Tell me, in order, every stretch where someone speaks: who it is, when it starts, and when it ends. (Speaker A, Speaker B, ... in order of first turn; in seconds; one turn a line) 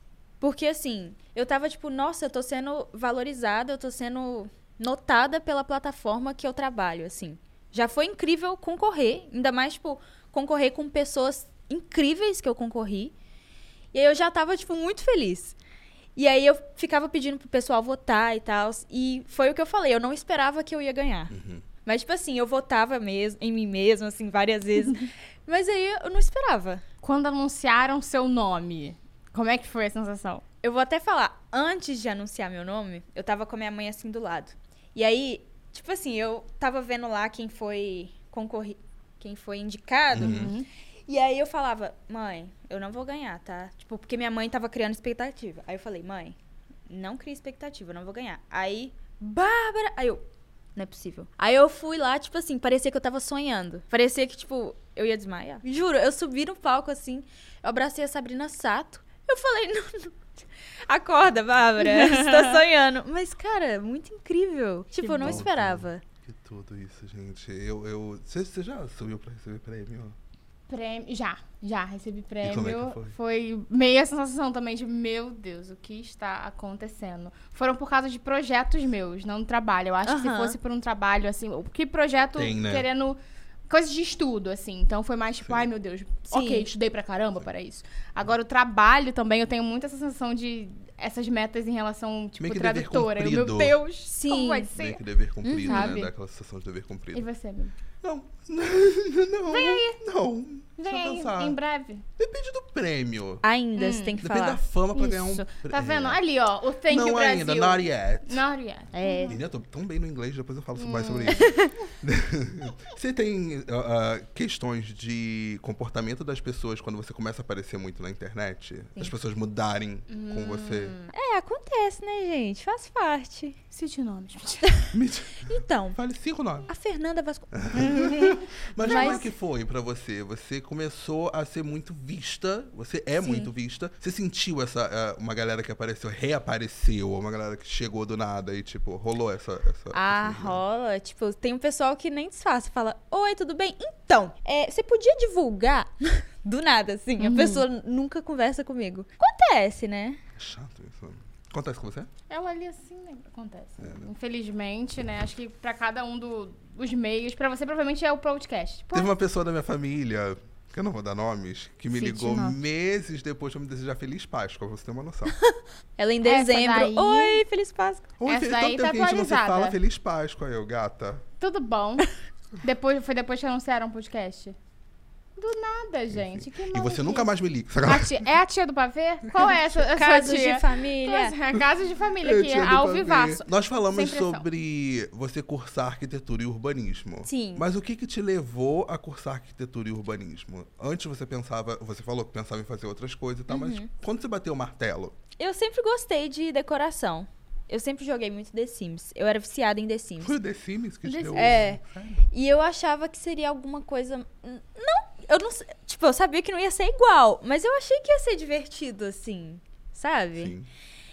Speaker A: 0.4-13.1
Speaker A: 13.9-15.6
Speaker A: 16.1-21.3
Speaker B: 21.3-21.6
Speaker A: 21.8-26.8
Speaker C: 27.0-30.4
Speaker A: 30.6-40.6
Speaker B: 40.1-40.5
Speaker C: 40.2-40.7
Speaker A: 41.1-46.4
Speaker A: 46.9-50.2
Speaker A: 50.8-60.2
Speaker A: 60.9-66.0
Speaker C: 61.8-62.6
Speaker C: 65.0-65.5
Speaker B: 65.2-70.2
Speaker C: 70.7-83.2
Speaker B: 72.4-73.1
Speaker A: 80.0-80.6
Speaker B: 82.3-82.9
Speaker C: 83.7-95.0
Speaker A: 86.3-86.7
Speaker B: 92.4-93.8
Speaker A: 94.0-94.7
Speaker B: 94.7-97.2
Speaker A: 95.4-95.9
Speaker C: 95.6-96.1
Speaker C: 97.1-97.7
Speaker B: 98.0-101.6
Speaker C: 99.5-100.0
Speaker C: 100.8-102.0
Speaker B: 102.2-103.4
Speaker A: 103.4-104.6
Speaker C: 103.8-104.2
Speaker B: 104.2-106.2
Speaker C: 104.9-109.4
Speaker B: 106.9-108.4
Speaker A: 108.9-109.4
Speaker B: 109.3-121.0
Speaker C: 110.8-111.6
Speaker A: 111.4-111.7
Speaker C: 120.1-121.1
Speaker A: 121.1-123.6
Speaker C: 123.7-124.7
Speaker B: 124.9-126.7
Speaker A: 125.4-126.0
Speaker A: 126.7-129.3
Speaker B: 127.5-140.6
Speaker C: 127.9-129.3
Speaker A: 133.2-133.5
Speaker A: 139.9-150.2
Speaker C: 147.2-147.6
Speaker B: 150.3-152.1
Speaker C: 152.3-159.1
Speaker B: 153.8-154.0
Speaker B: 158.9-165.3
Speaker C: 161.9-162.6
Speaker A: 165.4-168.1
Speaker C: 166.2-167.4
Speaker B: 168.2-171.2
Speaker C: 168.2-169.8
Speaker C: 171.4-172.1
Speaker C: 172.6-174.6
Speaker C: 175.4-177.3
Speaker B: 176.1-178.2
Speaker C: 177.8-184.4
Speaker A: 179.4-181.4
Speaker B: 182.2-195.1
Speaker A: 187.2-187.7
Speaker A: 193.5-193.9
Speaker A: 195.4-200.4
Speaker B: 200.2-202.2
Speaker C: 201.0-201.7
Speaker A: 201.3-201.8
Speaker A: 202.3-210.5
Speaker B: 210.4-210.7